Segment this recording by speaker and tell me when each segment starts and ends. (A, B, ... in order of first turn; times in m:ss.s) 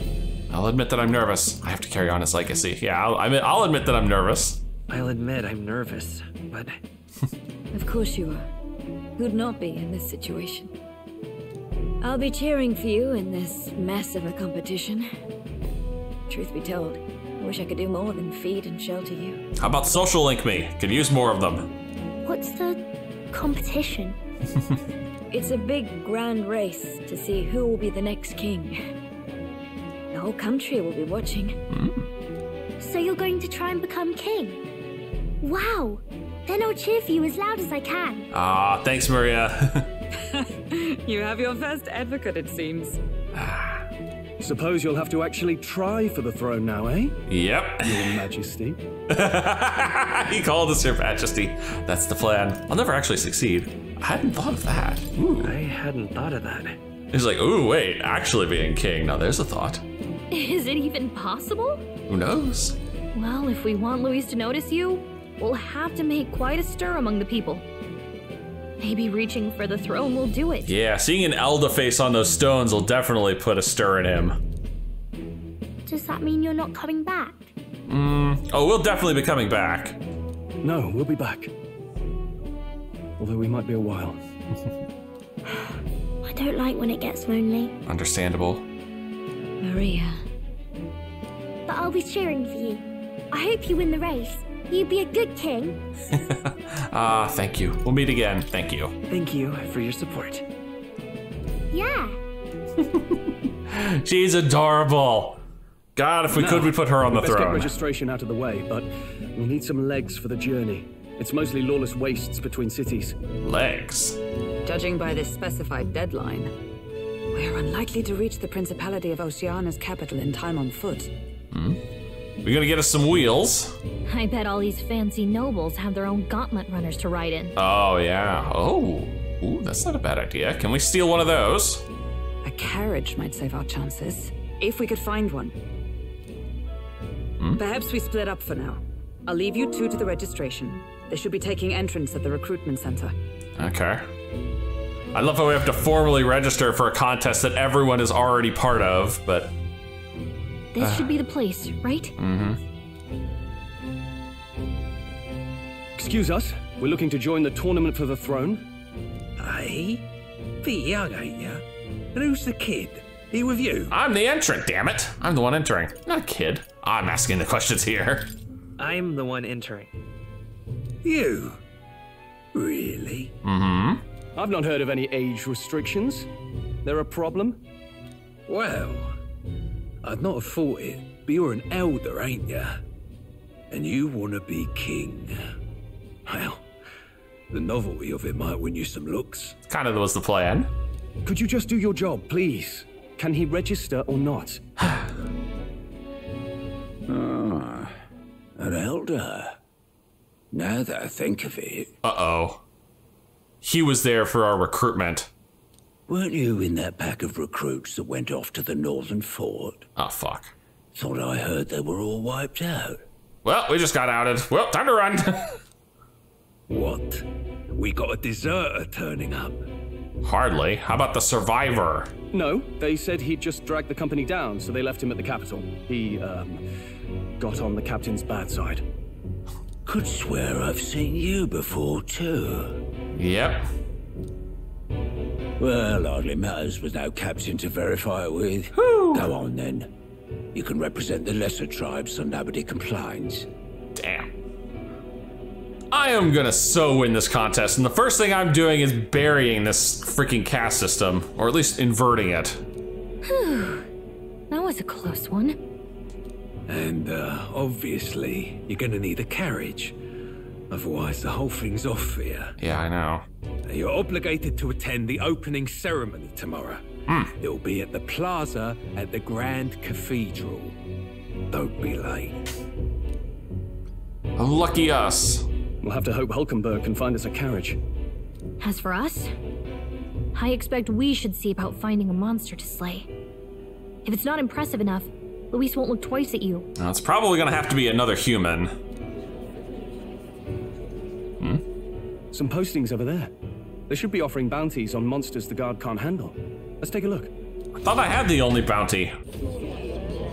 0:00.5-0:04.6 A
0:04.9-0:06.8 B
0:07.7-0:08.5 C
0:09.2-0:10.7 C
0:12.0-0:15.1 C
0:16.3-0:19.4 C
0:19.6-0:21.7 A
0:22.2-0:22.8 D
0:23.3-0:24.2 D
0:25.3-0:28.8 C
0:30.1-0:31.6 C
0:31.7-0:32.1 A
0:32.8-0:34.6 D
0:35.4-0:38.3 D
0:38.3-0:39.9 A
0:40.1-0:43.0 E
0:43.4-0:43.8 A
0:44.4-0:47.2 F
0:47.3-0:48.1 A
0:47.8-0:48.8 F
0:49.1-0:55.5 A
0:55.4-0:56.8 B
0:57.1-0:59.8 A
1:00.3-1:01.9 G
1:02.1-1:02.8 A
1:03.1-1:07.6 G
1:08.8-1:10.7 G
1:10.7-1:14.4 A
1:15.9-1:17.5 D
1:17.9-1:20.0 A
1:20.6-1:21.5 F
1:23.2-1:24.2 F
1:26.2-1:27.8 D
1:27.9-1:28.6 A
1:29.6-1:30.2 C
1:31.7-1:35.8 D
1:36.1-1:39.0 A
1:39.1-1:40.4 B
1:41.7-1:42.2 D
1:43.7-1:45.4 A
1:46.0-1:47.7 A
1:46.3-1:53.2 F
1:53.4-1:54.2 A
1:54.6-1:56.5 E
1:57.3-2:01.1 E
2:01.5-2:01.8 A
2:02.4-2:03.8 A
2:04.1-2:07.6 G
2:07.6-2:11.8 A
2:12.4-2:15.6 E
2:17.6-2:23.2 E
2:23.6-2:24.0 A
2:25.1-2:29.5 A
2:30.7-2:32.1 G
2:30.8-2:31.1 A
2:32.2-2:32.6 A
2:36.0-2:38.7 F
2:39.4-2:40.0 H
2:40.6-2:41.6 H
2:42.2-2:43.9 H
2:43.9-2:48.3 A
2:48.8-2:50.0 B
2:51.0-2:51.6 H
2:52.5-2:53.3 H
2:53.4-2:54.0 A
2:54.4-2:56.3 F
2:56.8-2:57.6 F
2:58.5-2:59.1 H
3:00.0-3:02.8 H
3:03.7-3:05.4 H
3:06.3-3:06.6 H
3:07.5-3:09.5 H
3:09.7-3:10.7 A
3:11.2-3:14.6 F
3:17.1-3:17.9 H
3:18.6-3:19.5 H
3:20.5-3:21.9 H
3:22.0-3:22.6 A
3:23.6-3:25.3 A
3:26.1-3:29.8 H
3:30.0-3:30.5 A
3:31.0-3:33.0 H
3:33.4-3:35.5 A
3:36.7-3:39.6 H
3:40.2-3:42.1 A
3:42.3-3:46.6 F
3:47.4-3:48.8 F
3:49.9-3:52.8 H
3:53.2-3:53.7 A
3:55.6-3:59.9 H
3:58.8-3:59.3 A
4:00.6-4:03.4 H
4:04.0-4:04.3 A
4:05.9-4:12.6 A
4:13.2-4:13.8 G
4:14.5-4:15.6 G
4:16.7-4:19.9 H
4:20.7-4:22.6 H
4:22.6-4:23.2 A
4:23.7-4:26.8 H
4:27.1-4:27.3 A
4:27.4-4:30.7 H
4:31.5-4:32.4 H
4:34.4-4:35.5 A
4:35.8-4:37.8 F
4:38.6-4:39.3 G
4:40.3-4:43.1 G
4:44.0-4:46.7 G
4:46.8-4:48.7 A
4:52.3-4:53.3 F
4:53.9-4:57.3 F
4:57.8-4:59.1 A